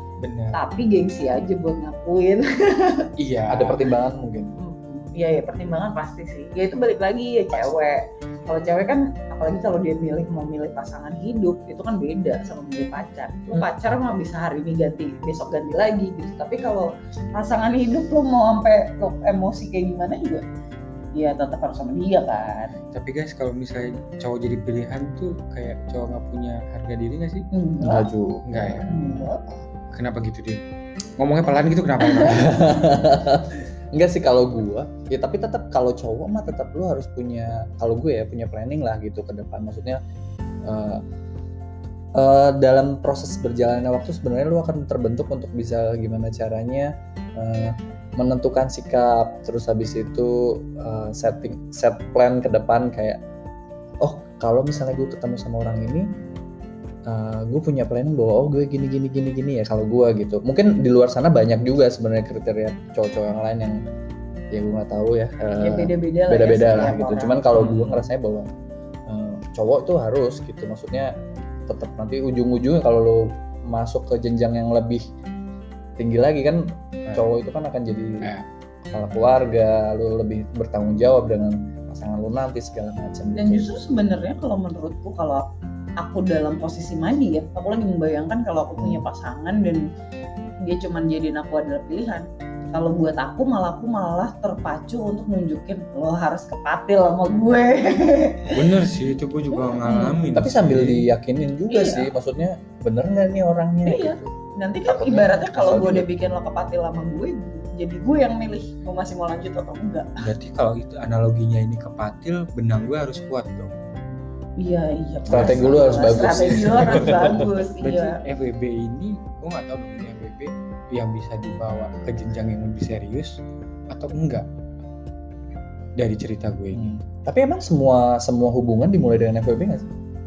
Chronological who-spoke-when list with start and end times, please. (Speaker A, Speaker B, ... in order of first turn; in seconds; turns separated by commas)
Speaker A: 0.2-0.6, Speaker B: 0.5-3.1, Speaker A: 3.2-3.9, Speaker C: 3.5-4.5, Speaker B: 4.6-20.4, Speaker B: 21.1-22.8, Speaker A: 22.9-27.5, Speaker B: 27.5-28.1, Speaker C: 27.8-29.6, Speaker A: 28.5-28.9, Speaker B: 28.9-29.4, Speaker A: 29.9-30.6, Speaker A: 31.2-32.7, Speaker B: 32.0-32.5, Speaker C: 32.2-40.0, Speaker C: 40.7-41.0, Speaker C: 42.1-53.2, Speaker C: 54.0-56.1, Speaker C: 57.1-63.8, Speaker C: 64.5-68.5, Speaker B: 65.5-67.4, Speaker A: 67.5-68.0, Speaker C: 69.1-71.1, Speaker C: 71.7-75.0, Speaker C: 76.0-78.3, Speaker C: 78.9-83.7, Speaker B: 83.4-85.5, Speaker B: 86.0-89.8, Speaker C: 88.8-89.1, Speaker B: 90.6-98.9, Speaker A: 98.5-101.1, Speaker B: 99.5-100.3, Speaker C: 100.3-104.3, Speaker B: 101.7-102.1, Speaker B: 103.8-110.1, Speaker C: 104.8-106.3, Speaker A: 110.2-113.8, Speaker B: 114.6-118.2, Speaker C: 115.3-117.5, Speaker A: 115.3-123.4, Speaker A: 123.9-124.5, Speaker A: 126.0-126.9, Speaker C: 126.7-129.9